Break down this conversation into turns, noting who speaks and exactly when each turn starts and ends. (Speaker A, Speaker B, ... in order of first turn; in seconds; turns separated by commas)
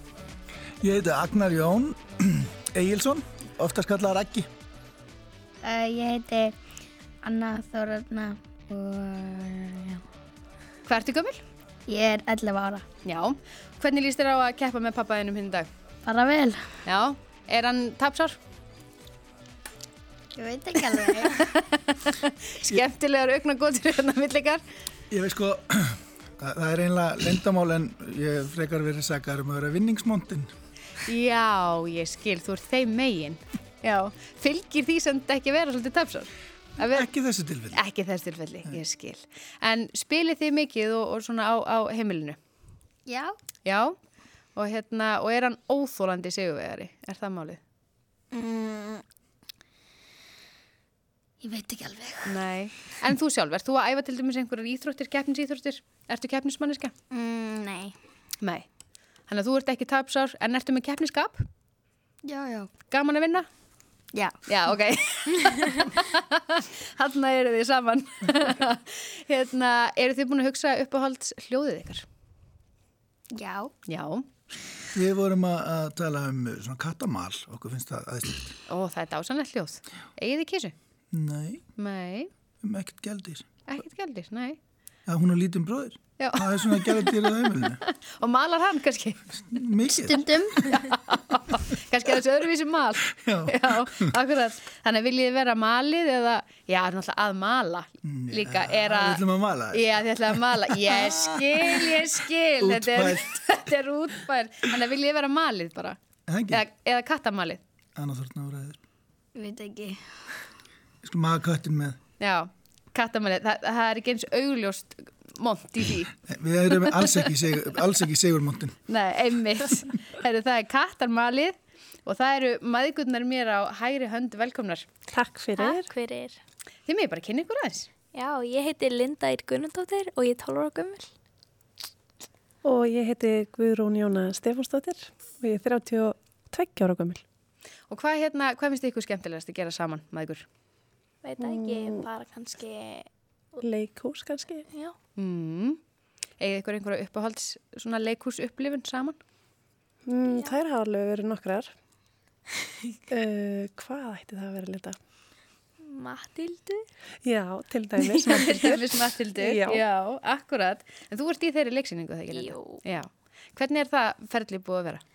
Speaker A: 0.8-4.5, Speaker B: 5.6-6.6, Speaker B: 7.2-10.0, Speaker C: 10.9-11.4, Speaker B: 11.9-12.8, Speaker C: 13.1-15.7, Speaker B: 16.1-16.7, Speaker C: 16.9-18.4, Speaker B: 20.4-21.5, Speaker C: 20.9-24.6, Speaker A: 25.1-30.5, Speaker C: 31.1-37.1, Speaker A: 36.9-37.8, Speaker C: 37.7-42.4, Speaker B: 43.1-43.3, Speaker C: 43.6-44.0, Speaker C: 44.6-47.6, Speaker B: 48.3-49.0, Speaker B: 51.4-52.4, Speaker C: 52.2-56.9, Speaker B: 57.1-58.0, Speaker C: 59.3-61.5, Speaker B: 62.2-62.7, Speaker C: 62.9-63.5, Speaker C: 64.5-72.0, Speaker B: 73.3-73.7, Speaker C: 73.9-74.3, Speaker A: 75.0-78.5, Speaker C: 78.7-80.7, Speaker A: 81.1-81.6, Speaker C: 81.8-82.3, Speaker A: 82.6-83.5, Speaker C: 83.7-84.6, Speaker A: 85.1-87.8, Speaker C: 86.2-89.4, Speaker A: 89.5-90.3, Speaker B: 89.9-90.6, Speaker C: 90.7-106.0, Speaker A: 93.2-94.1, Speaker A: 98.0-101.0, Speaker A: 102.6-103.6, Speaker A: 106.3-106.6, Speaker C: 106.5-107.6, Speaker A: 108.0-108.8, Speaker B: 109.3-110.0, Speaker A: 111.0-112.0, Speaker C: 112.2-116.1, Speaker A: 116.3-118.8, Speaker C: 116.8-117.2, Speaker C: 118.9-124.9, Speaker D: 125.1-125.9, Speaker E: 125.5-126.4, Speaker C: 126.9-127.9, Speaker E: 128.1-131.1, Speaker D: 132.7-137.2, Speaker C: 137.9-140.4, Speaker E: 141.2-143.1, Speaker D: 141.4-142.1, Speaker D: 143.6-144.7, Speaker E: 144.7-144.9, Speaker C: 145.2-145.8, Speaker C: 146.4-149.2, Speaker D: 150.1-151.7, Speaker E: 150.2-150.6, Speaker D: 153.1-155.0, Speaker E: 155.8-156.8, Speaker D: 157.2-159.8, Speaker C: 158.0-165.0, Speaker E: 162.3-162.8